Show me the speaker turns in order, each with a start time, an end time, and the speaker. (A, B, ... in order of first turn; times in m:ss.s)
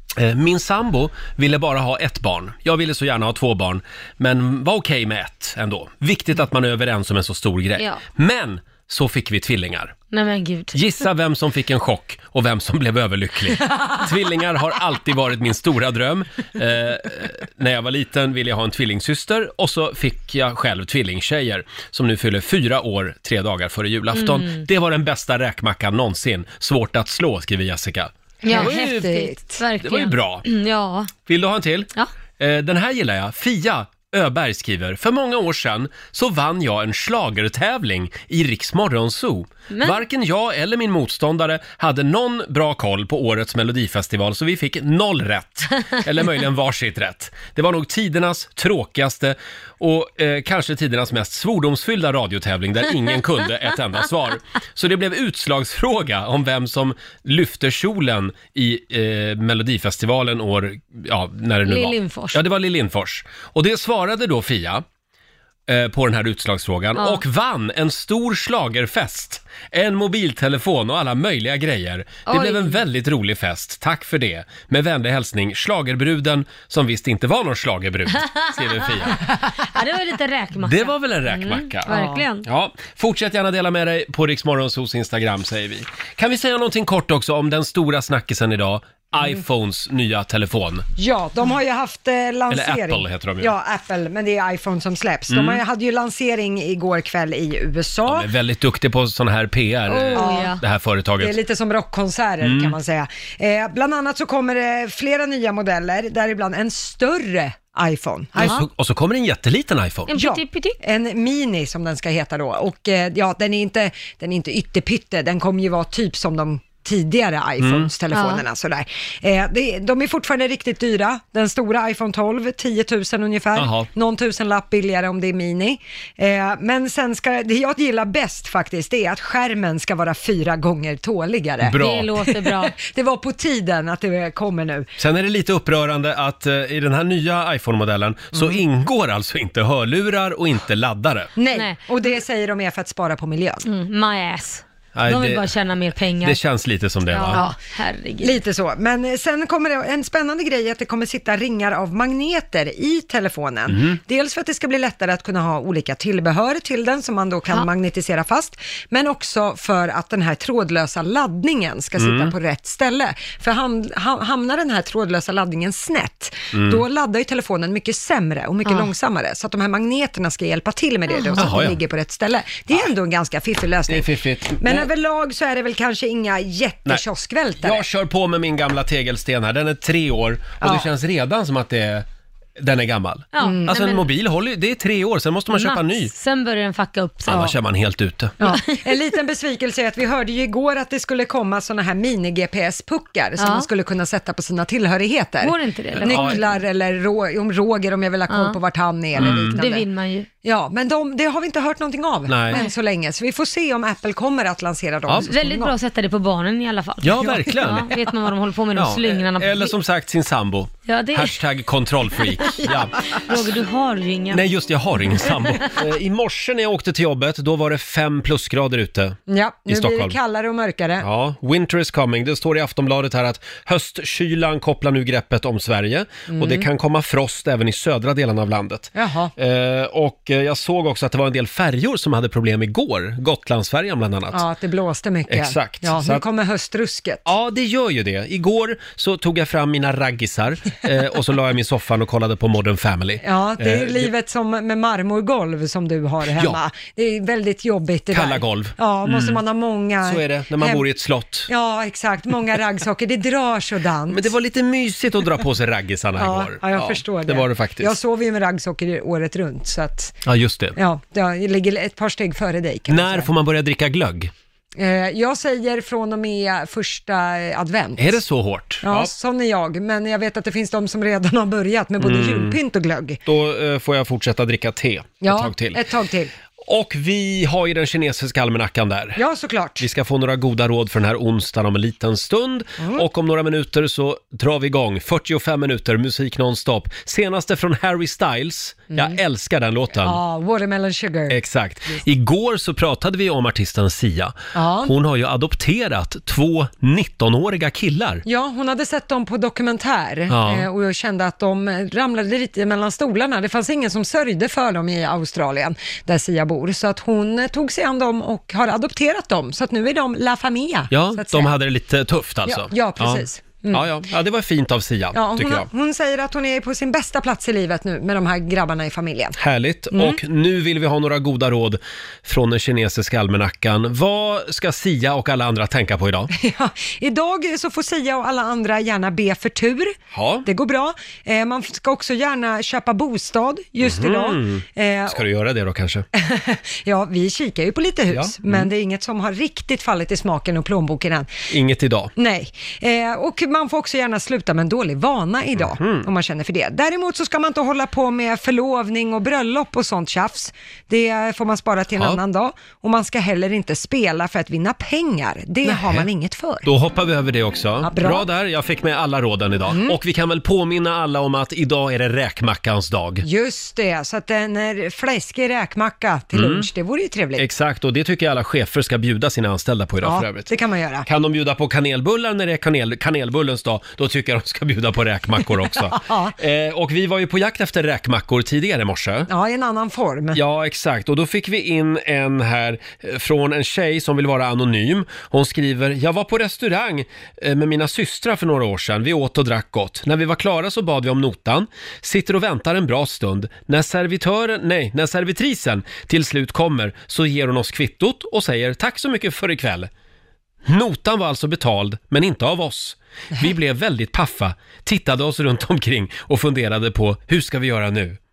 0:00.2-0:09.9 A
0:10.1-0:10.7 B
0:10.7-0:29.1 A
0:24.1-0:24.6 B
0:28.4-0:29.6 C
0:28.4-0:31.1 B
0:29.8-0:30.4 A
0:31.2-1:04.8 A
0:39.7-0:40.0 B
1:01.6-1:02.4 B
1:05.7-1:19.2 A
1:07.0-1:07.2 B
1:12.3-1:12.8 B
1:18.2-1:22.4 B
1:20.6-1:21.9 A
1:21.9-1:22.2 C
1:22.4-1:30.8 A
1:31.0-1:38.3 C
1:32.5-1:33.5 A
1:35.3-1:35.6 A
1:38.0-1:41.4 A
1:39.9-1:40.6 B
1:40.1-1:40.6 C
1:41.2-1:48.6 C
1:42.4-1:42.8 A
1:48.4-1:50.1 A
1:50.1-1:50.8 B
1:50.1-2:14.9 C
1:57.6-1:57.9 A
1:58.1-1:58.4 B
2:03.6-2:03.9 A
2:11.6-2:12.1 A
2:11.8-2:12.7 B
2:15.0-2:21.3 A
2:18.3-2:18.6 C
2:21.4-2:23.6 C
2:21.5-2:21.8 B
2:23.6-2:26.4 B
2:25.0-2:25.5 A
2:26.2-2:27.4 A
2:27.1-2:28.4 B
2:27.3-2:27.6 C
2:28.2-2:57.8 C
2:33.7-2:34.0 A
2:42.0-2:42.3 A
2:46.5-2:46.8 A
2:51.4-2:51.8 A
2:53.9-2:54.9 A
2:57.6-3:02.0 A
3:00.6-3:00.9 C
3:02.6-3:06.1 A
3:03.3-3:04.1 B
3:03.4-3:03.7 C
3:05.5-3:07.5 B
3:07.3-3:08.4 A
3:07.3-3:07.5 C
3:08.4-3:19.8 C
3:08.4-3:08.8 B
3:13.4-3:13.7 B
3:15.4-3:16.4 B
3:16.0-3:16.4 A
3:18.3-3:18.6 B
3:19.2-3:19.6 A
3:19.2-3:20.3 B
3:20.4-3:25.7 C
3:22.3-3:22.6 A
3:25.3-3:29.7 B
3:27.0-3:27.9 A
3:28.8-3:33.0 A
3:30.8-3:31.3 B
3:32.4-3:34.4 B
3:34.3-3:40.2 A
3:39.3-3:41.1 C
3:41.0-3:54.4 A
3:46.3-3:46.7 C
3:48.9-3:49.3 C
3:54.3-3:57.3 C
3:55.3-3:56.2 A
3:57.2-4:04.1 A
4:03.2-4:10.9 C
4:08.1-4:09.4 A
4:10.0-4:11.5 A
4:11.5-4:14.3 C
4:14.1-4:18.0 A
4:16.2-4:20.2 C
4:20.2-4:20.8 A
4:20.7-4:23.3 C
4:22.9-4:24.3 A
4:24.7-4:28.2 C
4:28.0-4:29.1 A
4:28.8-4:33.2 C
4:32.0-4:32.6 A
4:33.2-4:35.8 A
4:35.2-4:36.3 C
4:36.6-4:39.2 A
4:39.2-4:39.8 C
4:39.8-4:50.2 A
4:42.8-4:43.0 C
4:48.9-4:49.2 C
4:49.9-4:52.0 C
4:51.3-4:58.2 A
4:54.5-4:54.9 C
4:58.2-5:11.5 C
5:00.3-5:00.7 A
5:10.9-5:15.7 A
5:12.4-5:13.8 C
5:15.1-5:19.4 C
5:19.4-5:26.3 A
5:19.9-5:20.2 C
5:26.3-5:29.9 C
5:30.1-5:30.5 A
5:30.4-5:35.2 C
5:33.8-5:36.0 A
5:36.1-5:41.3 C
5:38.1-5:38.7 A
5:41.5-5:42.1 A
5:42.2-5:56.7 C
5:45.6-5:46.1 A
5:51.9-5:52.2 A
5:55.6-5:56.0 A
5:56.6-6:03.2 A
5:57.8-5:58.3 C
5:59.7-6:00.0 C
6:03.2-6:07.5 C
6:06.3-6:06.7 A
6:07.4-6:10.5 A
6:10.0-6:11.1 C
6:11.0-6:19.3 A
6:15.7-6:16.4 C
6:19.3-6:20.4 C
6:20.3-6:39.9 A
6:40.6-6:48.2 A